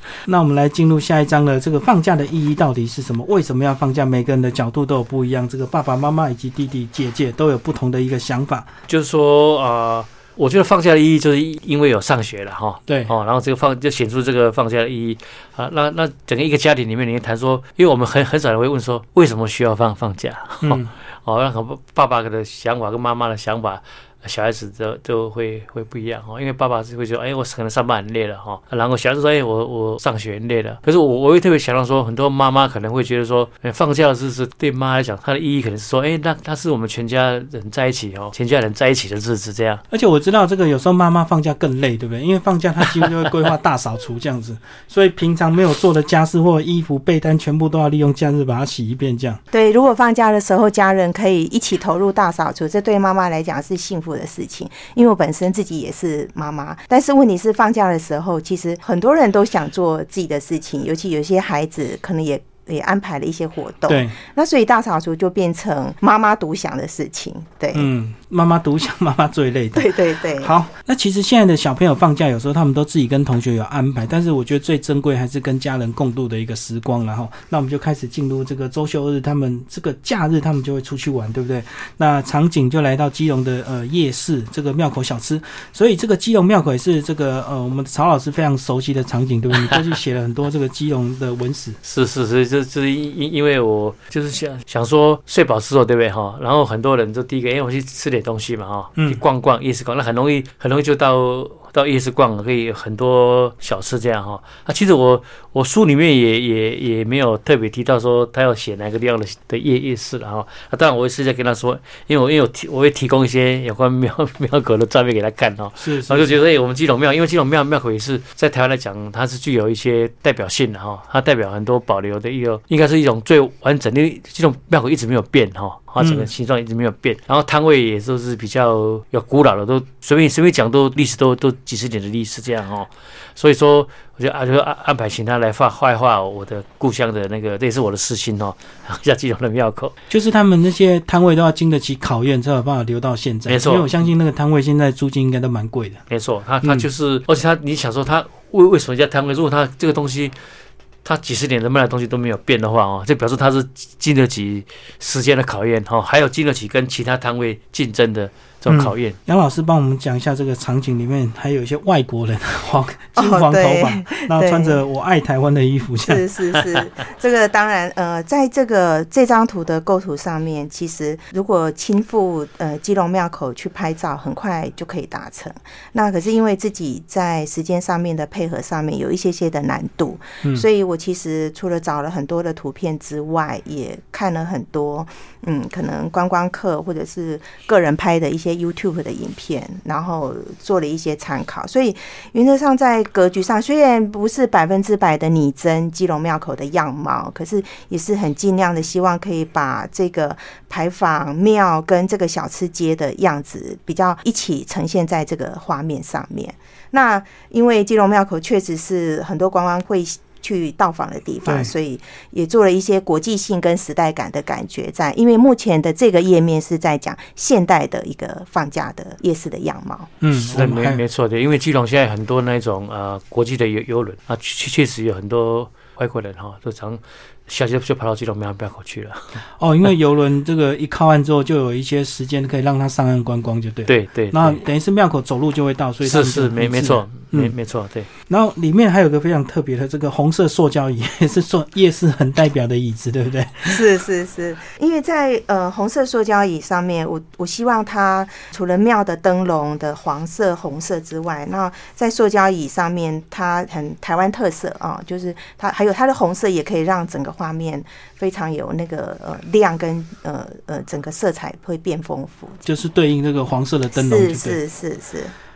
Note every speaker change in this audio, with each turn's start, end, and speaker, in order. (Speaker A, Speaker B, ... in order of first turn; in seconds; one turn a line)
Speaker A: 0.2-8.7
Speaker B: 8.9-39.8
Speaker A: 20.6-20.9
Speaker A: 39.9-49.4
Speaker C: 49.5-67.9
Speaker A: 63.9-64.2
Speaker A: 67.7-91.8
Speaker C: 69.7-70.5
Speaker B: 91.8-139.9
Speaker A: 115.8-116.3
Speaker A: 126.0-126.3
Speaker A: 140.1-146.0
Speaker B: 143.5-143.9
Speaker B: 146.1-150.3
Speaker B: 151.0-159.2
Speaker A: 158.7-166.2
Speaker C: 163.2-164.8
Speaker C: 166.0-220.1
Speaker A: 211.4-211.7
Speaker A: 220.2-221.0
Speaker B: 220.3-229.3
Speaker A: 229.6-237.5
Speaker B: 233.9-234.6
Speaker B: 236.0-238.1
Speaker A: 238.3-243.8
Speaker C: 243.7-262.6
Speaker A: 262.6-264.6
Speaker C: 263.9-265.3